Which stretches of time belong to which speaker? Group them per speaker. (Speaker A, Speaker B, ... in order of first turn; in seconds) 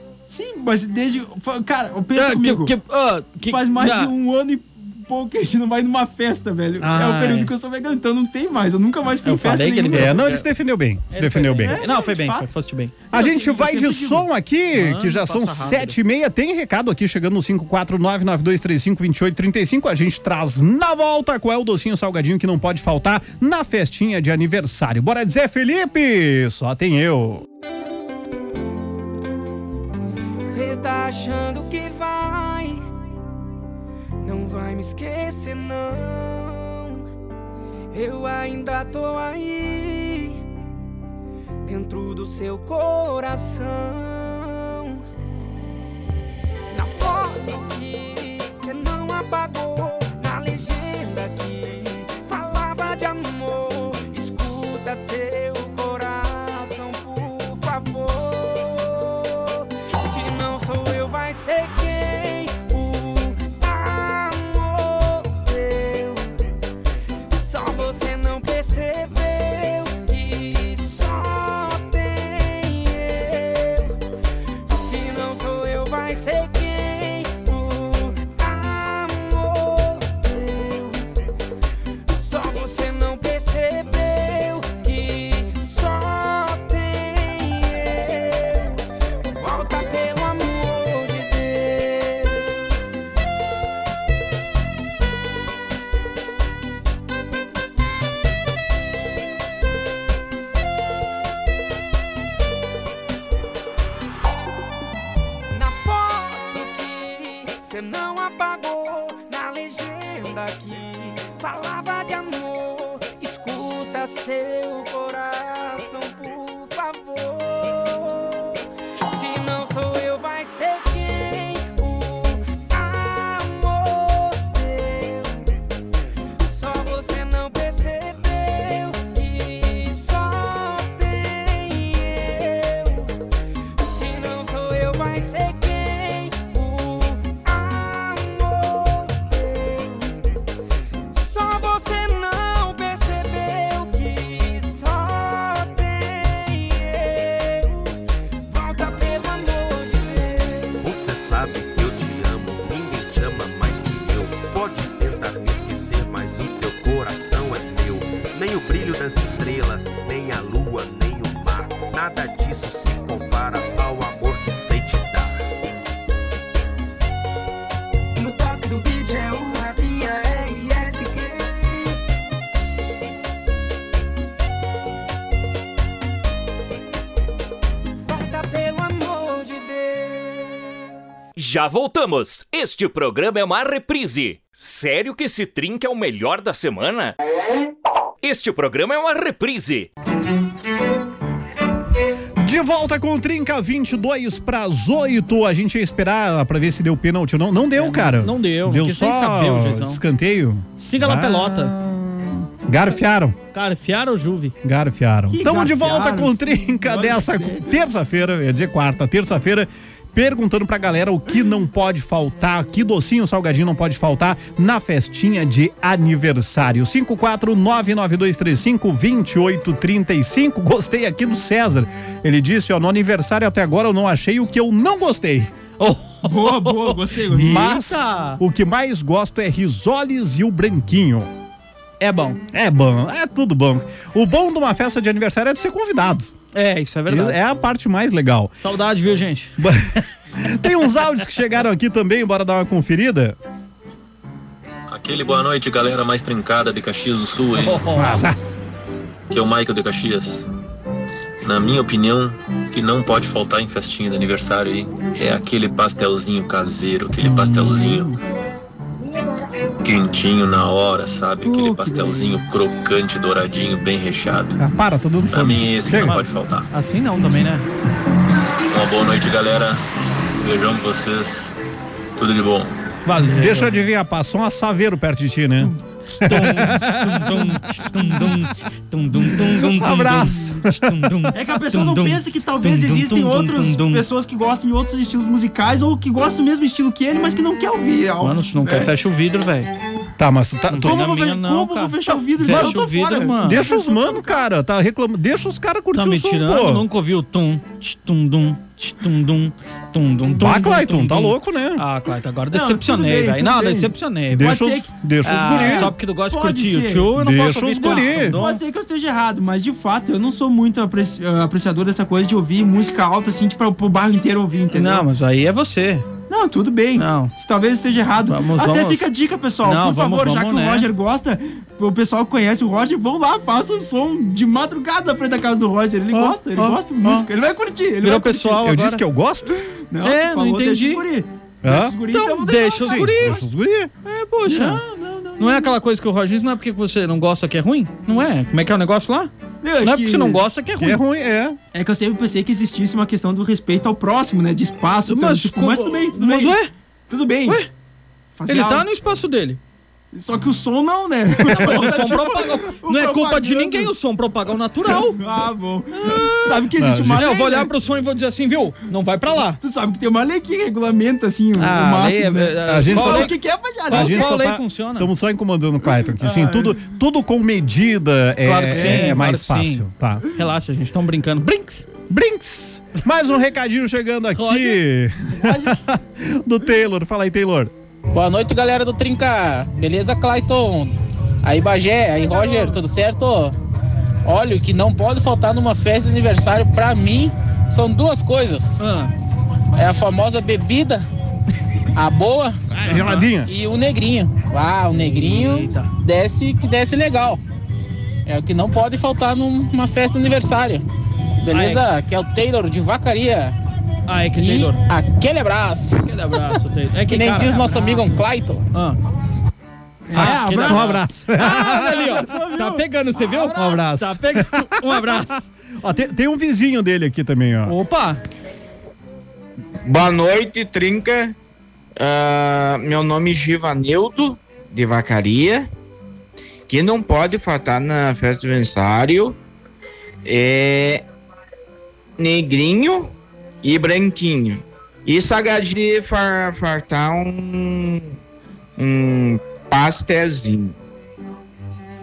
Speaker A: 0.3-2.7, 3.5-10.3, 11.6-12.5, 13.1-14.3, 205.3-207.8, 226.2-227.8, 261.4-262.4, 281.3-288.9, 290.8-294.4, 302.5-307.1, 307.8-315.1, 316.3-328.7, 329.9-333.2, 334.5-335.7, 339.6-340.4, 341.7-347.6, 348.4-348.9, 350.1-353.9, 354.9-357.7, 359.6-364.3, 366.2-366.8, 368.7-369.2, 375.3-375.8, 382.4-382.7, 410.1-411.0, 412.1-413.3
Speaker B: 2.1-4.1, 6.8-7.5, 9.2-10.5, 11.1-12.9, 14.7-16.0, 197.8-200.0, 200.8-201.7, 203.5-204.5, 225.8-228.4, 232.0-232.4, 236.5-237.4, 238.6-239.7, 247.6-248.3, 257.2-258.1, 265.9-267.7, 273.1-273.8, 276.1-284.1, 288.2-289.7, 290.7-293.6, 295.9-304.6, 305.2-308.6, 314.7-316.1, 317.0-317.3, 318.2-319.1, 319.6-320.9, 326.1-327.3, 328.0-329.0, 330.0-331.0, 332.1-333.4, 334.1-334.8, 335.4-339.3, 339.8-341.0, 345.1-346.7, 348.5-349.6, 351.4-355.2, 355.9-359.6, 361.6-363.4, 363.9-365.1, 368.4-371.9, 374.3-374.8, 388.8-389.1, 392.9-393.3, 395.0-395.9, 401.5-401.8, 404.1-404.8, 406.0-408.2, 410.1-415.5, 417.7-418.2
Speaker C: 9.9-11.8, 13.1-27.4, 192.4-203.4, 204.6-225.5, 227.3-231.3, 232.5-236.3, 237.1-238.5, 239.6-243.4, 247.9-248.4, 264.6-266.2, 273.4-278.4, 279.2-281.3, 290.2-291.1, 292.4-292.8, 293.4-296.9, 300.4-301.8, 304.3-305.9, 307.1-308.4, 328.6-329.6, 331.6-332.0, 332.8-333.9, 340.8-341.6, 356.8-357.3, 362.7-363.3, 363.9-370.2, 372.1-377.7, 392.7-393.5, 410.1-415.2, 415.8-417.8
Speaker D: 30.4-32.9, 34.2-37.0, 37.9-40.4, 41.6-45.0, 46.7-66.5, 67.3-74.0, 74.7-81.1, 82.1-88.8, 89.4-92.8, 105.5-125.6, 126.4-133.1, 133.8-140.2, 141.1-150.8, 168.2-172.0, 178.0-180.8
Speaker E: 150.8-165.4
Speaker F: 181.4-187.1, 188.2-189.9
Speaker G: 244.9-247.9, 249.3-250.5, 251.4-258.1, 259.8-264.6, 265.3-266.7, 268.6-269.8, 270.4-271.6, 272.2-272.7
Speaker H: 378.1-383.6, 384.2-388.8, 389.8-391.1, 391.9-392.6, 393.4-397.4, 398.3-400.8, 401.4-403.6, 404.4-406.1, 407.1-408.7
Speaker I: 419.9-421.4, 422.0-425.7, 426.7-429.4, 430.2-431.0, 432.2-438.1, 438.8-440.8